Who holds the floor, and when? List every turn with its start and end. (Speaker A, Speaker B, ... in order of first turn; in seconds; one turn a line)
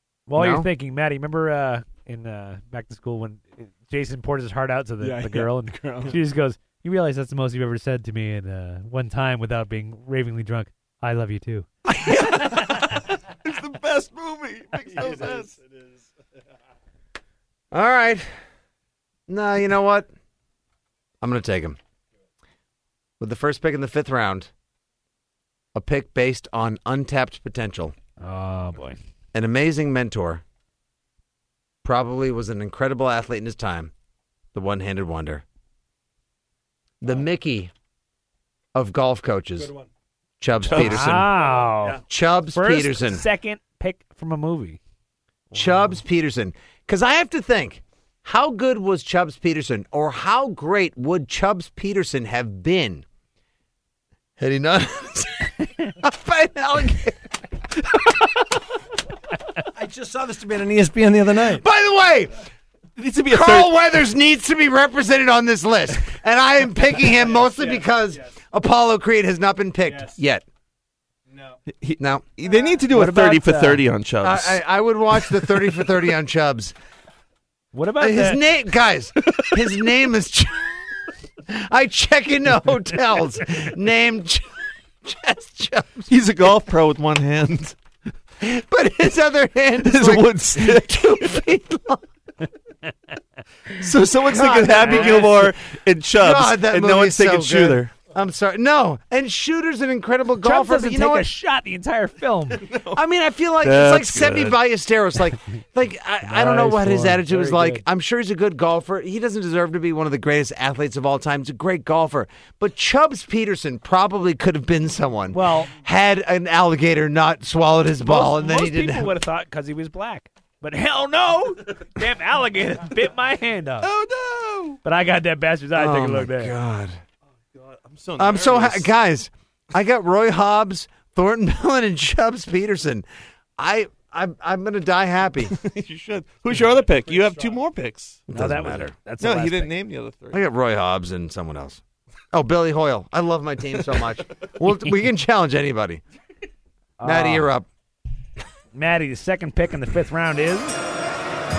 Speaker A: 0.3-11.7
Speaker B: 0.3-0.7
Speaker C: 5.0-6.2
Speaker D: 11.9-15.5
Speaker A: 12.2-12.8
Speaker C: 14.9-15.6
Speaker B: 17.7-18.3
Speaker B: 19.3-20.1
Speaker B: 21.2-21.8
Speaker B: 23.2-24.5
Speaker B: 25.8-27.9
Speaker A: 28.2-29.0
Speaker B: 29.3-30.4
Speaker B: 31.8-33.9
Speaker B: 34.5-35.4
Speaker B: 37.0-37.7
Speaker B: 38.8-39.7
Speaker C: 39.5-39.9
Speaker B: 40.4-41.5
Speaker D: 40.7-41.2
Speaker A: 40.7-42.0
Speaker B: 42.1-43.2
Speaker A: 42.5-44.8
Speaker B: 45.5-53.0
Speaker B: 54.4-57.2
Speaker C: 59.7-61.6
Speaker B: 61.4-62.4
Speaker D: 63.0-63.7
Speaker B: 63.3-70.4
Speaker C: 67.1-68.4
Speaker C: 69.8-70.2
Speaker C: 71.3-71.6
Speaker D: 71.8-74.6
Speaker B: 72.0-72.3
Speaker A: 72.9-73.8
Speaker B: 74.2-76.7
Speaker A: 77.7-78.4
Speaker B: 78.0-80.8
Speaker B: 81.5-86.1
Speaker D: 86.1-87.8
Speaker B: 88.4-92.0
Speaker D: 89.8-91.4
Speaker D: 93.8-98.0
Speaker B: 94.2-95.5
Speaker A: 94.8-95.3
Speaker B: 96.2-101.3
Speaker A: 100.4-102.6
Speaker D: 102.6-103.0
Speaker B: 102.9-119.1
Speaker D: 103.6-104.6
Speaker A: 106.2-107.8
Speaker A: 115.3-115.7
Speaker A: 118.0-123.9
Speaker D: 123.8-124.8
Speaker A: 124.8-126.5
Speaker B: 125.8-127.0
Speaker D: 127.5-128.9
Speaker B: 128.2-133.1
Speaker B: 133.6-135.6
Speaker D: 135.6-138.3
Speaker C: 137.0-137.6
Speaker B: 138.3-138.9
Speaker A: 138.3-139.7
Speaker D: 139.2-140.4
Speaker B: 140.3-141.8
Speaker B: 142.3-146.0
Speaker A: 147.0-147.5
Speaker B: 147.0-147.7
Speaker A: 148.7-150.8